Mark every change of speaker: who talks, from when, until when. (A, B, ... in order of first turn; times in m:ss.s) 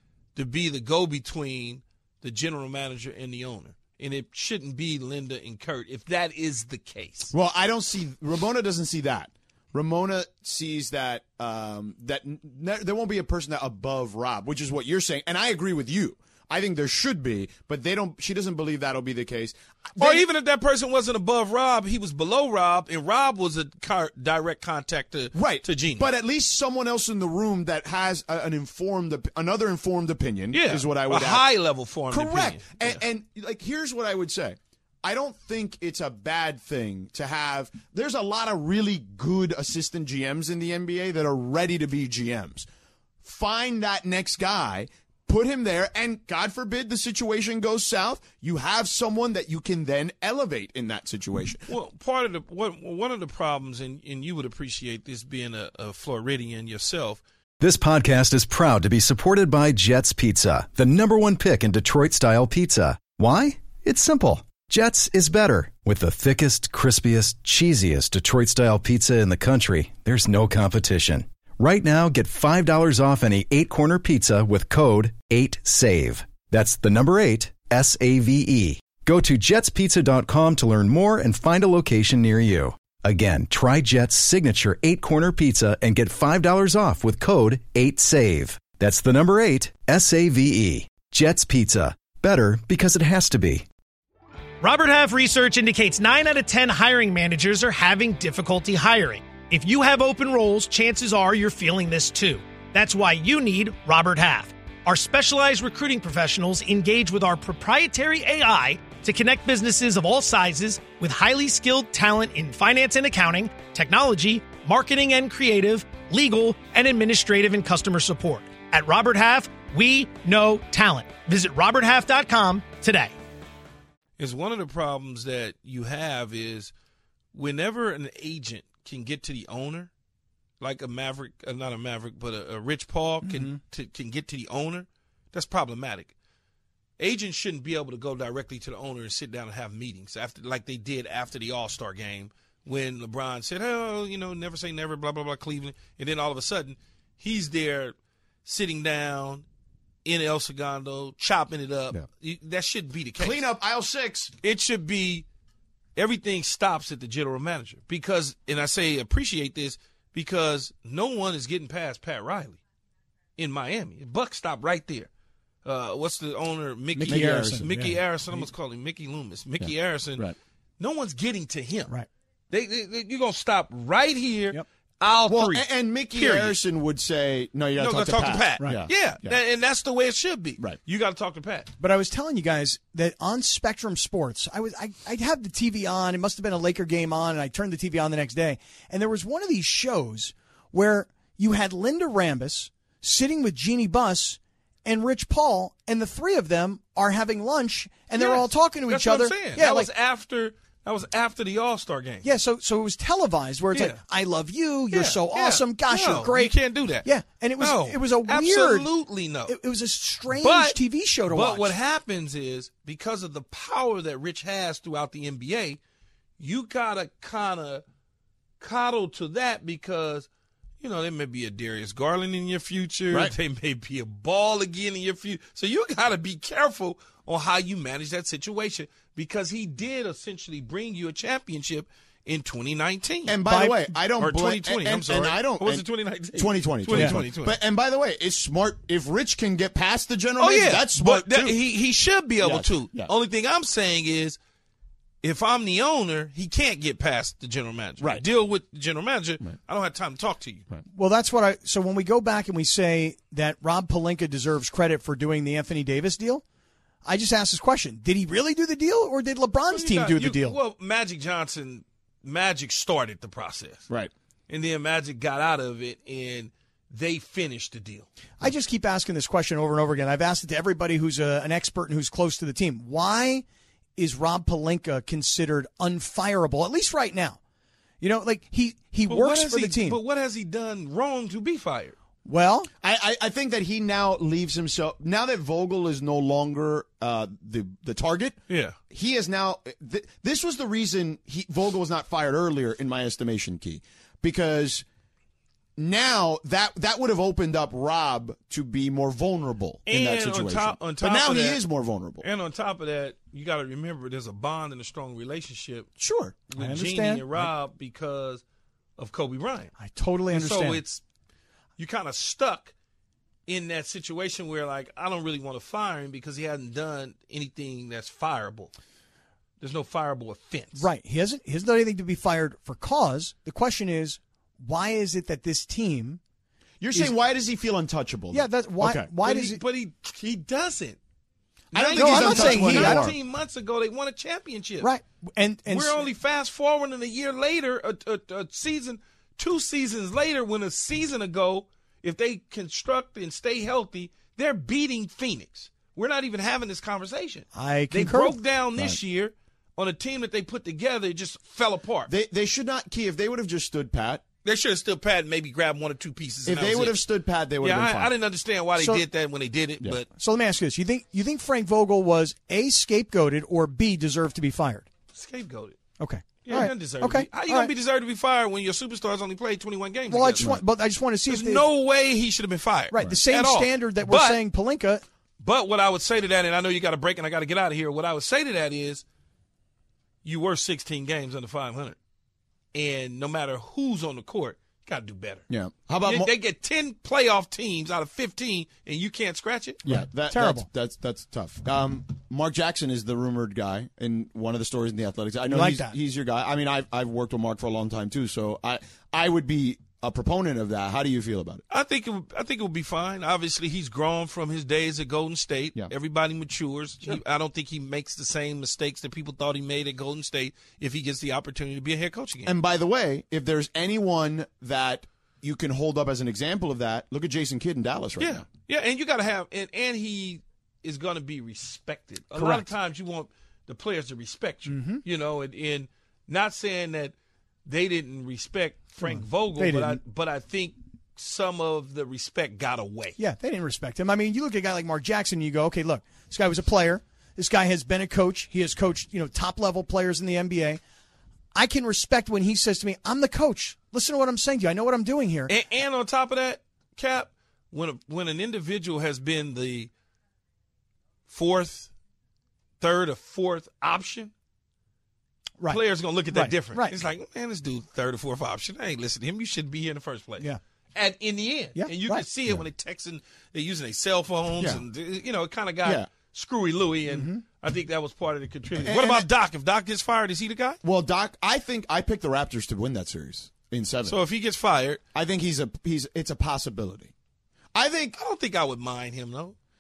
0:00.4-0:07.3 A
0:07.3-0:20.3 B
0:20.0-0:26.1 A
0:25.3-0:31.4 B
0:30.5-0:33.0 A
0:32.1-0:42.7 B
0:43.2-0:51.7 B
0:51.7-0:57.2 A
0:57.6-1:33.7 C
1:34.6-2:03.1 D
2:04.2-2:06.7 A
2:07.3-2:09.9 A
2:10.6-2:16.1 A
2:13.2-2:13.6 E
2:17.0-2:29.4 A
2:30.0-2:33.4 A
2:33.2-2:34.4 B
2:34.4-2:35.2 A
2:36.0-2:42.6 A
2:43.4-2:45.1 A
2:45.6-2:50.3 A
2:47.0-2:48.0 E
2:47.0-2:47.7 B
2:49.6-2:50.4 B
2:50.8-2:51.9 A
2:52.5-2:56.6 A
2:55.3-2:59.4 B
2:57.8-3:01.7 A
3:01.8-3:19.9 E
3:18.2-3:22.3 A
3:22.2-3:28.9 E
3:23.7-3:24.0 A
3:24.9-3:27.1 A
3:27.6-3:29.6 A
3:29.5-3:31.7 E
3:30.3-3:35.8 A
3:36.4-3:37.8 A
3:38.6-3:40.3 A
3:40.8-3:53.4 A
3:53.3-4:01.6 B
3:53.5-3:53.9 E
3:54.2-3:57.6 A
3:56.9-3:57.2 E
4:00.4-4:04.4 A
4:02.4-4:03.1 B
4:05.2-4:10.7 A
4:08.0-4:08.3 B
4:10.9-4:16.4 E
4:17.0-4:20.6 E
4:19.7-4:23.9 A
4:24.5-4:28.1 A
4:28.4-4:33.4 E
4:34.0-4:37.4 E
4:38.0-4:40.0 E
4:39.1-4:42.0 A
4:42.2-4:42.7 E
4:42.8-4:48.4 B
4:48.5-4:48.8 A
4:48.9-4:54.8 B
4:55.8-5:02.3 B
4:59.9-5:01.6 A
5:02.2-5:05.9 A
5:06.0-5:07.5 E
5:06.5-5:08.4 A
5:09.0-5:09.7 A
5:09.8-5:10.8 E
5:10.3-5:11.0 A
5:11.8-5:12.7 A
5:13.5-5:18.7 A
5:19.6-5:20.9 A
5:20.8-5:26.2 E
5:26.8-5:29.1 B
5:28.3-5:29.6 E
5:29.2-5:31.0 A
5:31.7-5:34.9 A
5:31.7-5:33.2 B
5:32.0-5:33.1 E
5:34.8-5:36.0 E
5:35.7-5:52.1 A
5:47.6-5:48.4 E
5:52.1-5:54.2 B
5:54.4-5:57.0 A
5:56.4-5:58.1 B
5:57.6-6:00.1 A
6:00.1-6:04.9 E
6:05.1-6:05.8 A
6:06.0-6:07.7 E
6:06.4-6:10.6 A
6:10.1-6:11.6 E
6:11.3-6:14.4 A
6:12.9-6:15.0 E
6:15.4-6:19.0 A
6:20.2-6:22.0 A
6:22.7-6:25.4 A
6:25.5-6:26.3 B
6:26.0-6:29.8 A
6:29.9-6:30.7 E
6:29.9-6:41.6 B
6:35.5-6:36.0 E
6:41.7-6:52.5 A
6:52.5-6:58.4 B
6:58.2-7:07.1 A
7:02.4-7:02.7 E
7:04.7-7:05.0 E
7:07.7-7:13.2 A
7:09.0-7:10.0 E
7:13.2-7:20.8 E
7:21.5-7:25.5 E
7:25.5-7:29.9 A
7:31.3-7:31.9 A
7:32.8-7:34.3 A
7:35.6-7:37.0 E
7:35.7-7:50.8 A
7:41.8-7:42.2 E
7:44.6-7:44.8 B
7:47.1-7:47.4 E
7:48.8-7:49.3 B
7:50.8-7:54.2 B
7:54.1-7:55.0 A
7:55.1-7:57.1 B
7:57.7-7:58.2 B
7:58.2-7:59.6 A